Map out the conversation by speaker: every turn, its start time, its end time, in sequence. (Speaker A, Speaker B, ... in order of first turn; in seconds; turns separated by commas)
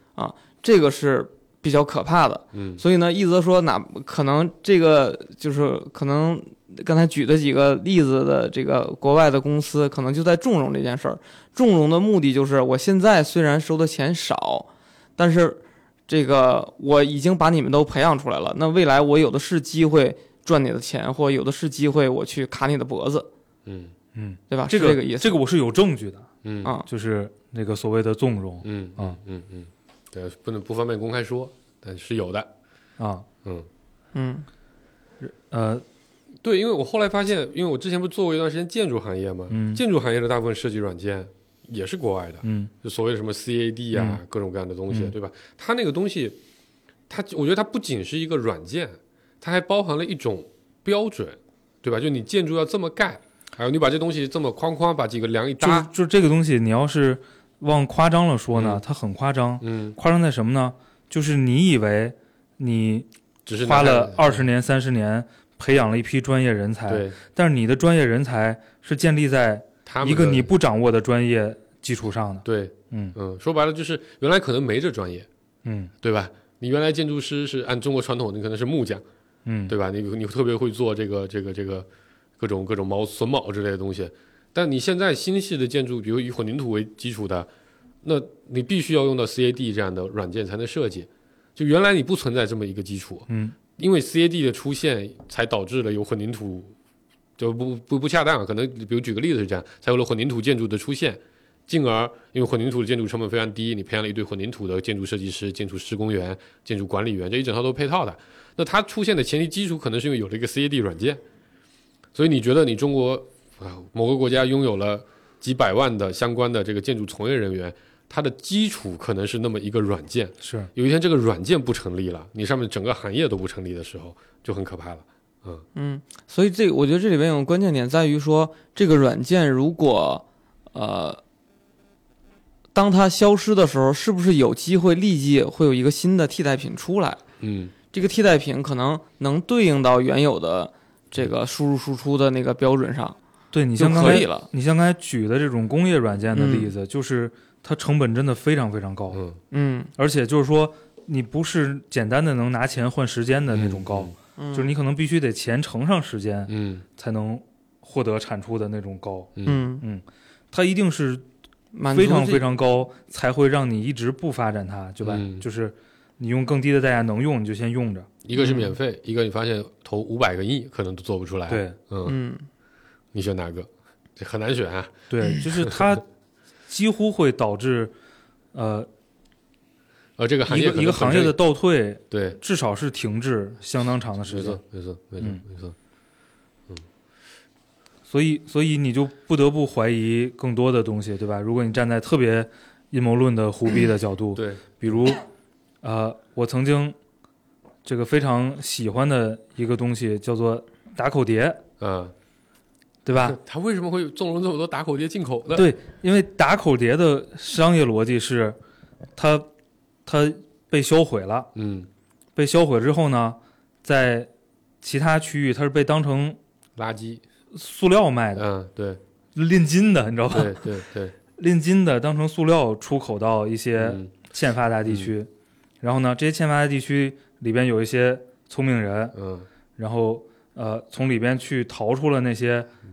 Speaker A: 0.2-23.3, Speaker B: 2.5-2.8, Speaker B: 23.6-23.9, Speaker C: 24.1-26.3, Speaker A: 24.5-25.4, Speaker B: 26.4-26.7, Speaker C: 26.9-29.2, Speaker B: 28.6-32.5, Speaker C: 33.0-33.2, Speaker A: 34.1-34.5, Speaker C: 35.2-35.8, Speaker B: 36.4-46.4, Speaker C: 39.5-39.8, Speaker C: 42.4-42.7, Speaker C: 43.9-44.2, Speaker B: 47.1-55.9, Speaker C: 55.6-63.1, Speaker B: 58.5-58.8, Speaker B: 59.6-60.0, Speaker B: 63.5-64.5, Speaker C: 63.6-73.1, Speaker B: 66.9-67.2, Speaker B: 69.8-70.5, Speaker B: 72.4-75.3, Speaker C: 75.6-75.9, Speaker B: 76.0-79.0, Speaker C: 79.5-79.7, Speaker B: 79.7-81.9, Speaker B: 82.4-87.5, Speaker B: 88.0-96.7, Speaker C: 93.3-93.5, Speaker B: 97.4-111.2, Speaker B: 112.1-125.6, Speaker C: 120.4-120.7, Speaker A: 125.8-131.2, Speaker A: 132.7-137.2, Speaker B: 137.4-137.7, Speaker A: 137.9-143.2, Speaker C: 143.5-149.2, Speaker A: 143.8-144.5, Speaker A: 146.3-146.7, Speaker B: 149.1-149.4, Speaker A: 149.5-149.9, Speaker C: 150.0-161.2, Speaker B: 153.5-154.1, Speaker A: 154.4-154.7, Speaker B: 156.5-156.8, Speaker A: 159.4-159.8, Speaker A: 161.7-162.4, Speaker C: 161.9-168.1, Speaker B: 165.0-165.4, Speaker B: 168.2-172.2, Speaker A: 168.3-168.7, Speaker C: 171.5-171.8, Speaker A: 172.0-172.4, Speaker B: 173.1-175.8, Speaker C: 175.1-176.0, Speaker C: 176.7-177.9, Speaker C: 178.5-178.9, Speaker B: 180.2-181.4, Speaker C: 180.5-184.6, Speaker B: 182.1-182.4, Speaker B: 184.3-185.7, Speaker C: 188.1-195.2, Speaker B: 194.3-195.1, Speaker C: 195.8-196.9, Speaker C: 197.8-201.6, Speaker B: 201.8-202.1, Speaker C: 203.0-203.4, Speaker B: 203.1-205.7, Speaker C: 205.5-208.6, Speaker C: 209.2-209.5, Speaker C: 210.1-211.5, Speaker B: 211.5-211.9, Speaker C: 212.3-214.3, Speaker C: 214.8-216.4, Speaker B: 216.8-217.2, Speaker C: 217.5-218.4, Speaker B: 218.3-219.0, Speaker C: 219.3-220.6, Speaker B: 220.3-221.1, Speaker C: 221.4-225.3, Speaker B: 223.8-224.1, Speaker B: 224.8-225.1, Speaker C: 225.8-229.1, Speaker B: 229.1-229.5, Speaker C: 229.8-232.7